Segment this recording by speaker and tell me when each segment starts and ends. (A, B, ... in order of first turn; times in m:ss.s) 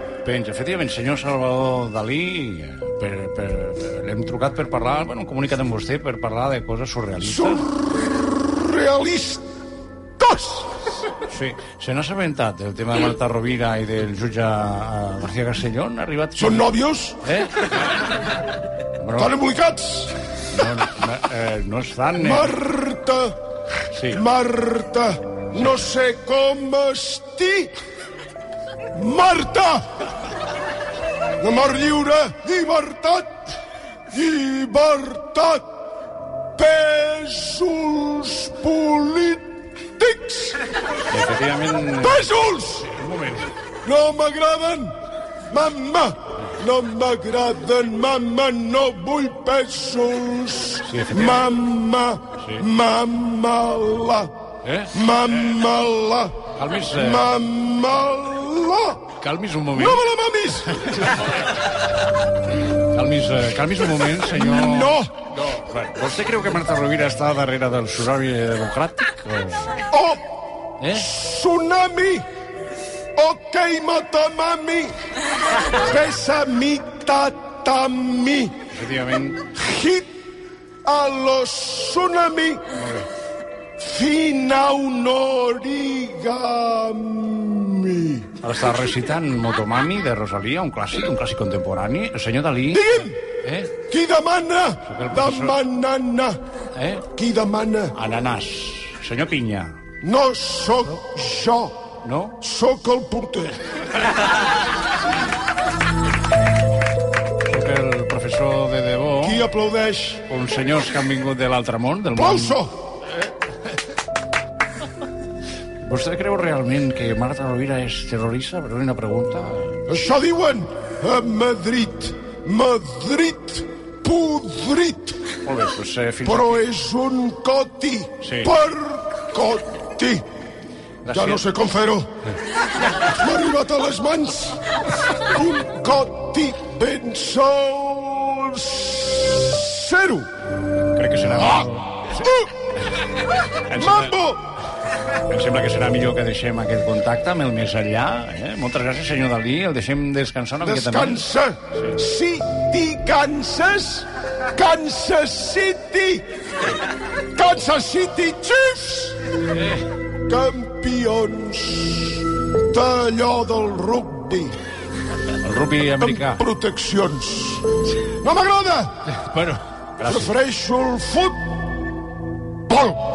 0:00.2-0:07.6 A
0:07.2-0:09.4 B
0:10.2-0:10.7 B
0:11.3-0:16.7 A
0:16.4-0:17.2 B
0:17.2-0:18.0 A
0:19.0-0:19.3 A
0:19.2-0:20.1 B
0:20.5-0:22.5 A
0:22.2-0:23.3 B
0:23.9-0:24.2 A
0:24.1-0:27.7 B
0:28.9-0:29.8 B
0:31.4-0:33.4 B
0:34.1-0:35.6 B
0:36.6-0:39.4 B
0:40.0-0:40.6 B
0:41.1-0:42.2 A
0:42.0-0:42.9 B
0:42.8-0:43.5 A
0:43.8-0:44.9 B
0:45.5-0:54.3 B
0:50.8-0:51.4 A
0:52.4-0:52.6 A
0:54.6-0:55.0 A
0:54.9-0:56.3 B
0:56.5-0:57.3 A
0:56.9-0:59.0 B
0:59.2-1:00.0 A
0:59.7-1:00.9 B
1:00.7-1:01.3 A
1:02.9-1:09.8 A
1:04.3-1:05.1 B
1:09.9-1:10.2 B
1:10.8-1:11.1 A
1:10.9-1:12.2 B
1:13.2-1:14.9 B
1:15.7-1:18.5 B
1:18.7-1:19.4 A
1:19.5-1:20.1 B
1:20.8-1:22.6 B
1:22.7-1:23.1 A
1:23.8-1:28.3 B
1:28.4-1:33.7 A
1:32.7-1:33.2 B
1:33.9-1:36.4 B
1:34.8-1:35.6 A
1:36.8-1:37.0 A
1:37.1-1:37.9 B
1:37.9-1:39.8 A
1:40.0-1:41.8 B
1:42.0-1:42.4 A
1:42.4-1:43.6 B
1:47.4-1:49.4 A
1:49.2-1:50.2 B
1:50.3-1:52.6 A
1:52.2-1:52.7 B
1:55.8-1:59.8 A
1:59.9-2:05.2 B
2:05.4-2:06.6 A
2:06.2-2:10.2 B
2:08.2-2:08.5 A
2:11.0-2:11.4 A
2:11.1-2:12.0 B
2:13.0-2:14.6 B
2:15.2-2:20.3 B
2:20.9-2:22.2 A
2:22.2-2:22.5 B
2:23.6-2:24.1 A
2:23.7-2:24.4 B
2:25.3-2:31.2 A
2:30.6-2:36.2 B
2:37.3-2:39.2 B
2:39.5-2:39.8 A
2:40.3-2:44.5 B
2:45.4-2:46.4 A
2:46.0-2:47.6 B
2:48.2-2:48.9 B
2:49.1-2:50.3 A
2:50.0-2:51.4 B
2:52.7-2:53.0 B